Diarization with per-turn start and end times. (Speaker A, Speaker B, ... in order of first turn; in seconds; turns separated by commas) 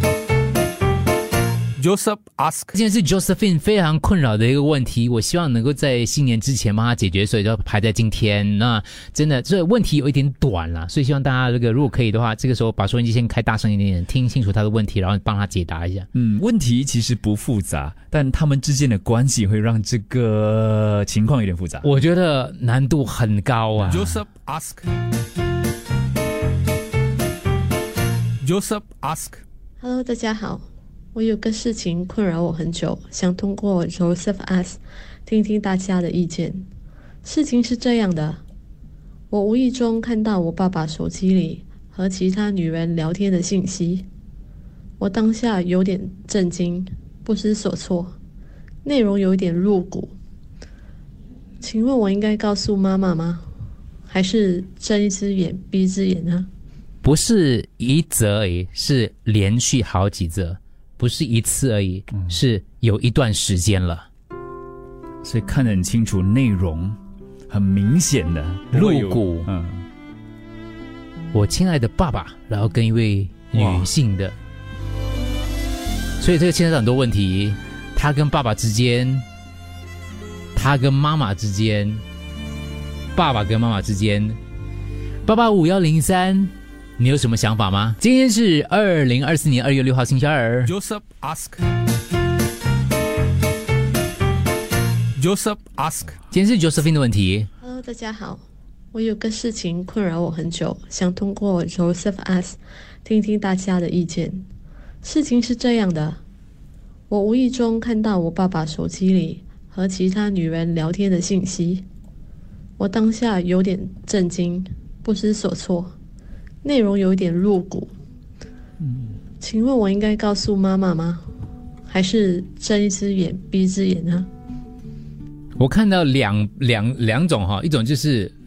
Speaker A: 1.8-16.0, Speaker B: 16.1-21.9, Speaker A: 21.8-24.6, Speaker B: 23.8-24.1, Speaker A: 28.4-29.2, Speaker C: 28.5-29.4, Speaker D: 29.8-36.7, Speaker D: 37.2-38.4, Speaker D: 39.3-44.1, Speaker D: 45.0-48.2, Speaker D: 48.8-50.1, Speaker D: 51.6-53.5, Speaker D: 54.1-56.5, Speaker A: 57.0-64.1, Speaker B: 62.1-62.4, Speaker B: 65.2-67.0, Speaker B: 67.5-69.9, Speaker A: 68.7-69.5, Speaker A: 71.3-74.3, Speaker B: 73.5-73.9, Speaker A: 76.2-79.2, Speaker A: 80.5-82.0, Speaker A: 83.1-84.4, Speaker A: 85.2-90.8, Speaker C: 90.6-91.6, Speaker C: 95.2-96.1, Speaker A: 95.9-97.5, Speaker D: 97.6-104.5, Speaker D: 105.0-106.2, Speaker D: 107.1-111.8, Speaker D: 112.8-116.0, Speaker D: 116.6-117.9, Speaker D: 119.4-121.2, Speaker D: 121.9-124.3, Speaker A: 125.6-128.3, Speaker C: 126.7-127.0